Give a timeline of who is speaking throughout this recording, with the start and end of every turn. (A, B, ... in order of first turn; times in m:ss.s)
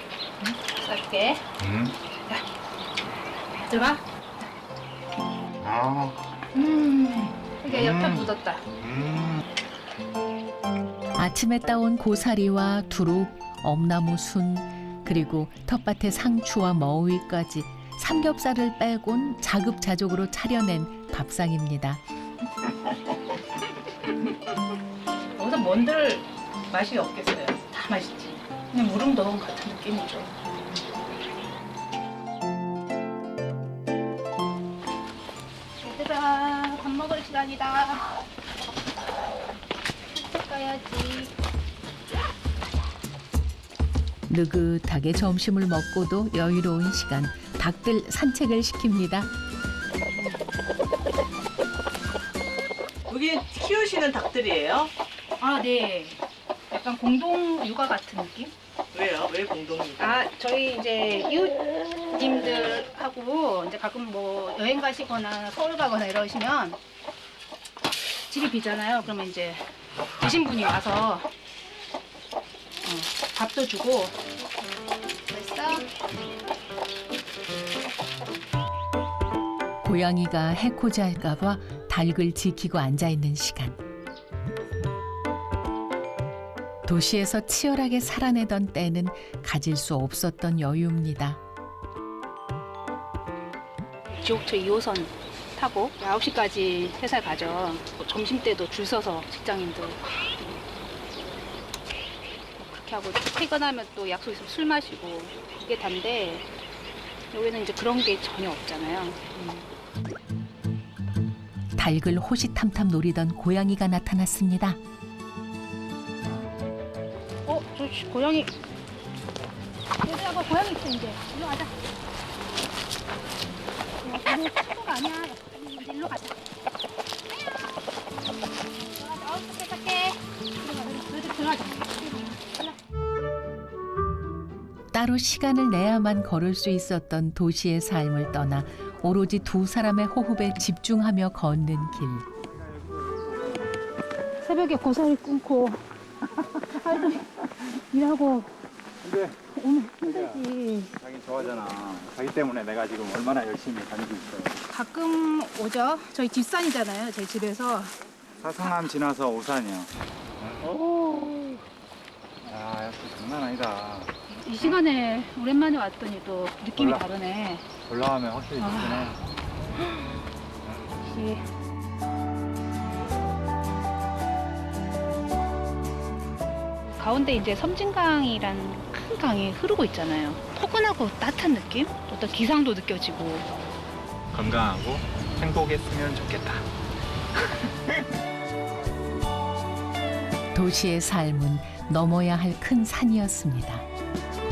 0:00.4-0:01.4 A
0:01.6-0:02.0 B
0:03.6-0:04.0 A
0:05.6-0:06.3 B
0:06.5-0:08.6 A
0:07.7-0:09.4 B
0:11.1-0:22.0 C
0:25.4-0:30.4 A
0:35.8-0:38.2 A
0:40.1-0:41.3 A
0:44.3-0:49.3 C
0:50.1-0:50.4 A
0:53.1-0:54.9 D
0:55.4-0:58.5 A
0:58.9-1:00.2 D
1:00.0-1:06.8 A
1:08.3-1:09.6 A
1:10.2-1:11.3 A
1:12.8-1:14.2 A
1:15.3-1:15.9 A
1:19.8-1:23.8 C
1:26.8-1:31.4 C
1:34.2-1:40.6 A
1:42.6-1:46.5 A
1:47.3-1:49.6 A
1:51.8-1:54.8 C
1:57.4-1:58.5 A
2:00.0-2:01.7 A
2:04.0-2:06.4 A
2:08.9-2:12.8 A
2:14.9-2:22.3 C
2:22.6-2:23.6 B
2:24.4-2:25.8 A
2:26.4-2:28.6 A
2:29.0-2:29.5 B
2:29.5-2:30.9 A
2:30.0-2:34.6 B
2:34.7-2:38.0 A
2:38.4-2:41.6 B
2:42.4-2:44.8 B
2:44.3-2:47.7 A
2:46.8-2:47.0 B
2:47.8-2:49.2 B
2:48.6-2:49.2 A
2:50.6-2:51.0 B
2:51.0-2:51.4 A
2:57.0-3:03.5 A
3:04.3-3:06.6 B
3:07.3-3:08.0 B
3:10.5-3:13.9 C